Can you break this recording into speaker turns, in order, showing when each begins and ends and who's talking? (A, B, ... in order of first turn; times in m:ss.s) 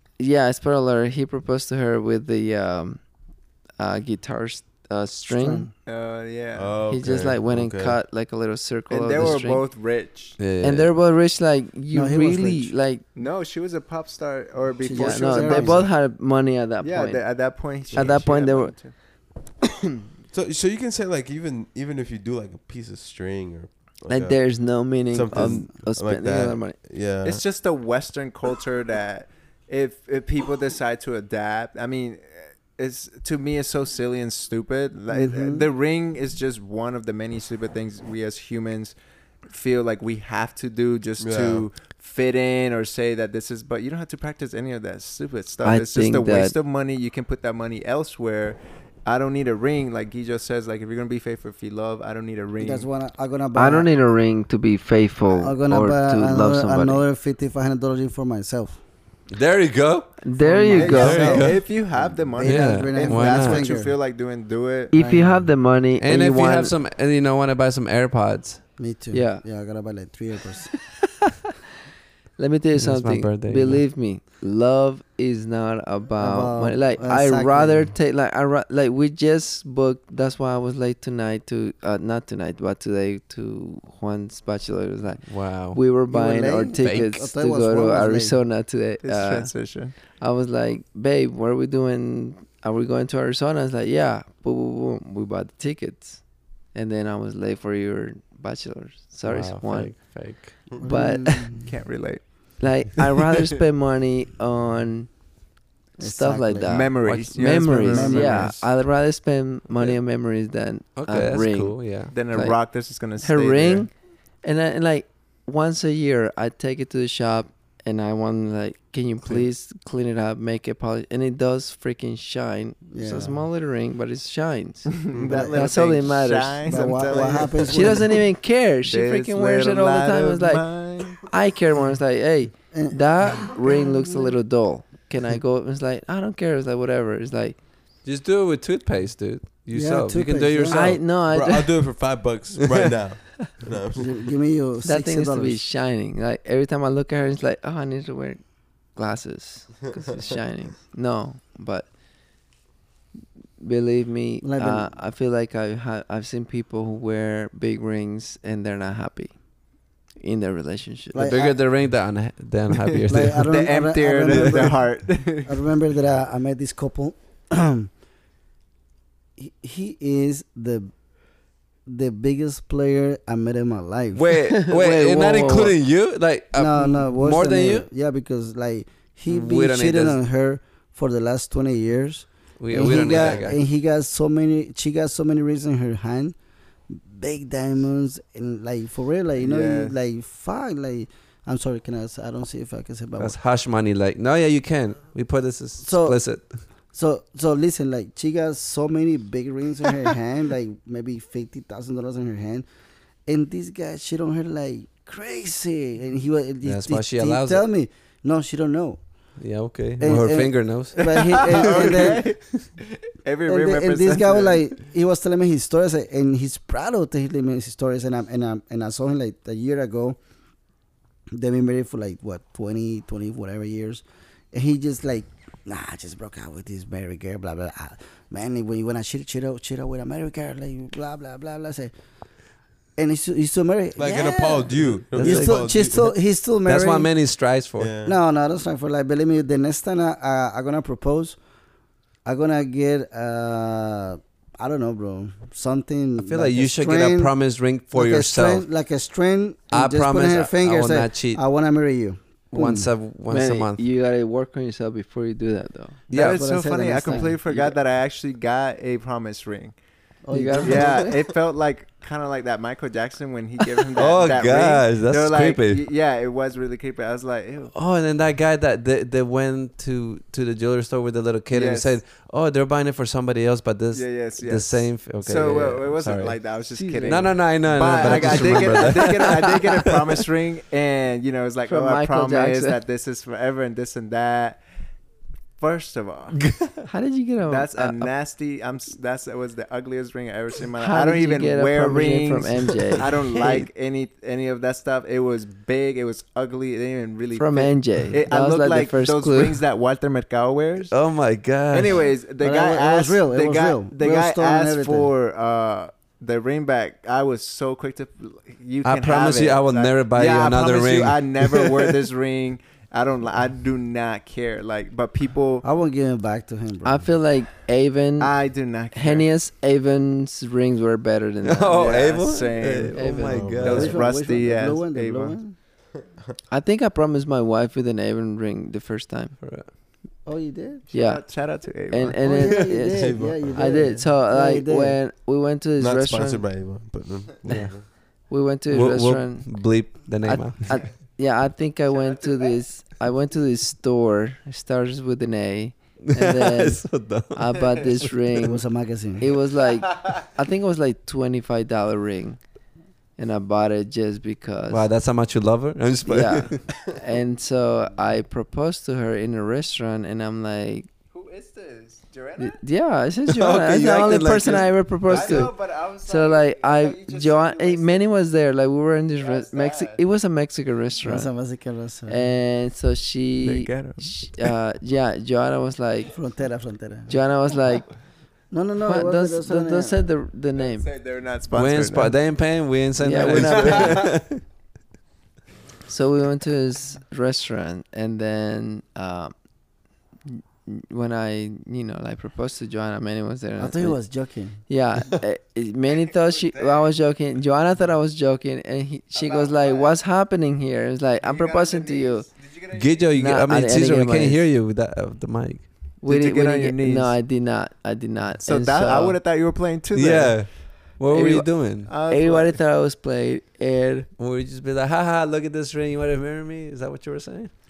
0:00.2-0:03.0 A
0:03.8-0:05.7 A
0:05.3-0:05.7 B
0:05.9-0:06.8 C
0:06.6-0:08.0 D
0:06.9-0:09.7 A
0:08.9-0:10.4 C
0:10.4-0:10.9 E
0:10.6-0:13.0 A
0:11.9-0:12.7 B
0:13.2-0:16.0 C
0:14.8-0:15.9 B
0:14.9-0:18.8 A
0:16.8-0:18.9 C
0:20.3-0:27.4 D
0:24.1-0:26.8 A
0:27.2-0:52.9 C
0:35.1-0:35.7 B
0:41.2-0:41.7 D
0:45.6-0:46.6 A
0:52.6-0:53.9 B
0:53.6-0:57.0 A
0:55.3-0:58.8 B
0:59.3-1:01.6 E
1:00.2-1:01.4 A
1:00.4-1:03.9 B
1:00.7-1:04.9 C
1:02.4-1:03.7 E
1:04.9-1:06.8 A
1:04.9-1:05.5 B
1:06.0-1:08.6 E
1:08.8-1:10.7 B
1:09.1-1:09.4 A
1:12.4-1:40.0 A
1:12.8-1:13.8 E
1:16.2-1:17.9 B
1:25.3-1:25.8 E
1:26.1-1:28.4 B
1:26.8-1:27.1 E
1:29.0-1:30.0 C
1:39.2-1:40.6 E
1:40.8-1:41.7 B
1:40.8-1:41.5 A
1:41.5-1:42.6 C
1:42.6-1:45.1 A
1:46.0-1:52.6 A
1:46.0-1:46.9 B
1:46.6-1:48.6 C
1:47.9-1:48.6 B
1:51.0-1:52.1 E
1:52.1-1:53.9 C
1:53.2-2:07.0 A
2:02.9-2:03.4 B
2:05.0-2:08.2 C
2:05.3-2:05.6 B
2:06.6-2:08.2 B
2:07.7-2:17.6 A
2:08.8-2:11.3 C
2:12.7-2:14.3 B
2:18.0-2:21.0 E
2:19.7-2:21.0 B
2:20.7-2:21.8 A
2:21.2-2:24.3 D
2:22.6-2:23.0 E
2:24.0-2:25.6 B
2:24.8-2:28.4 A
2:29.0-2:31.9 A
2:33.6-2:39.4 A
2:34.4-2:34.9 B
2:40.2-2:41.3 A
2:41.1-2:41.6 B
2:41.2-2:43.6 E
2:43.1-2:44.9 B
2:43.4-2:45.6 C
2:45.4-2:47.9 B
2:49.4-2:50.9 B
2:51.9-2:54.2 B
2:54.2-2:57.9 E
2:54.6-2:55.8 A
2:56.5-3:06.4 B
2:59.3-3:00.2 E
3:02.6-3:03.6 E
3:06.9-3:13.4 B
3:09.4-3:10.0 C
3:13.2-3:16.6 E
3:15.8-3:16.2 B
3:16.9-3:22.7 B
3:23.3-3:29.0 B
3:26.6-3:27.6 E
3:29.4-3:32.6 E
3:30.0-3:32.3 B
3:31.1-3:34.7 C
3:33.5-3:40.2 B
3:41.3-3:51.9 B
3:53.0-3:57.1 B
3:54.0-3:56.1 D
3:55.1-3:55.6 E
3:56.7-3:57.9 E
3:57.8-3:58.2 D
3:58.0-4:01.4 B
4:02.2-4:07.4 B
4:06.2-4:08.7 E
4:07.9-4:12.9 B
4:09.7-4:11.4 E
4:12.5-4:13.8 E
4:13.3-4:16.0 A
4:16.1-4:19.8 C
4:16.1-4:16.4 E
4:16.2-4:17.4 B
4:17.1-4:17.8 A
4:20.2-4:21.1 B
4:20.3-4:21.2 A
4:20.6-4:27.7 C
4:23.9-4:25.8 E
4:27.7-4:40.1 E
4:31.5-4:32.0 C
4:33.9-4:44.6 C
4:36.7-4:37.3 A
4:38.0-4:39.1 A
4:41.7-4:42.8 A
4:45.6-4:46.4 C
4:46.4-4:46.8 E
4:46.9-4:48.1 A
4:47.5-5:00.9 C
4:50.8-4:53.7 A
4:57.4-4:59.6 A
5:00.9-5:02.0 E
5:01.7-5:15.6 C
5:02.4-5:05.1 B
5:08.8-5:11.9 E
5:15.6-5:17.1 B
5:16.8-5:18.4 A
5:18.2-5:19.3 C
5:18.9-5:22.2 A
5:21.4-5:24.0 E
5:21.7-5:25.4 C
5:22.9-5:23.5 A
5:23.2-5:24.0 D
5:23.6-5:25.6 B
5:26.5-5:29.4 A
5:29.4-5:29.7 E
5:30.2-5:30.8 B
5:30.9-5:32.5 C
5:30.9-5:31.3 A
5:31.9-5:36.5 A
5:32.2-5:35.0 B
5:32.9-5:33.8 D
5:35.8-5:37.9 D
5:37.5-5:37.7 E
5:38.3-5:48.6 A
5:38.7-5:40.8 E
5:42.0-5:42.5 C
5:46.1-5:48.5 E
5:48.4-5:49.3 B
5:49.2-5:52.4 A
5:53.2-5:54.9 A
5:54.7-5:56.6 E
5:56.1-6:00.9 A
6:01.1-6:02.6 C
6:02.4-6:11.3 A
6:03.3-6:05.5 E
6:05.1-6:08.1 C
6:09.2-6:10.0 C
6:11.0-6:12.2 B
6:12.1-6:16.1 A
6:13.4-6:14.4 C
6:16.1-6:17.2 B
6:17.1-6:17.9 A
6:18.5-6:20.0 B
6:18.8-6:20.9 A
6:20.6-6:22.3 C
6:21.5-6:24.4 E
6:23.0-6:24.1 A
6:23.2-6:24.1 C
6:25.9-6:29.3 A
6:30.3-6:34.0 A
6:33.6-6:34.6 B
6:34.7-6:42.3 A
6:36.4-6:36.9 C
6:39.1-6:39.9 C
6:41.2-6:43.1 C
6:42.7-6:45.7 E
6:43.2-6:44.4 A
6:46.0-6:47.2 C
6:46.0-6:49.2 A
6:48.4-6:52.6 C
6:49.9-6:51.9 E
6:52.1-6:54.1 A
6:54.2-6:57.5 E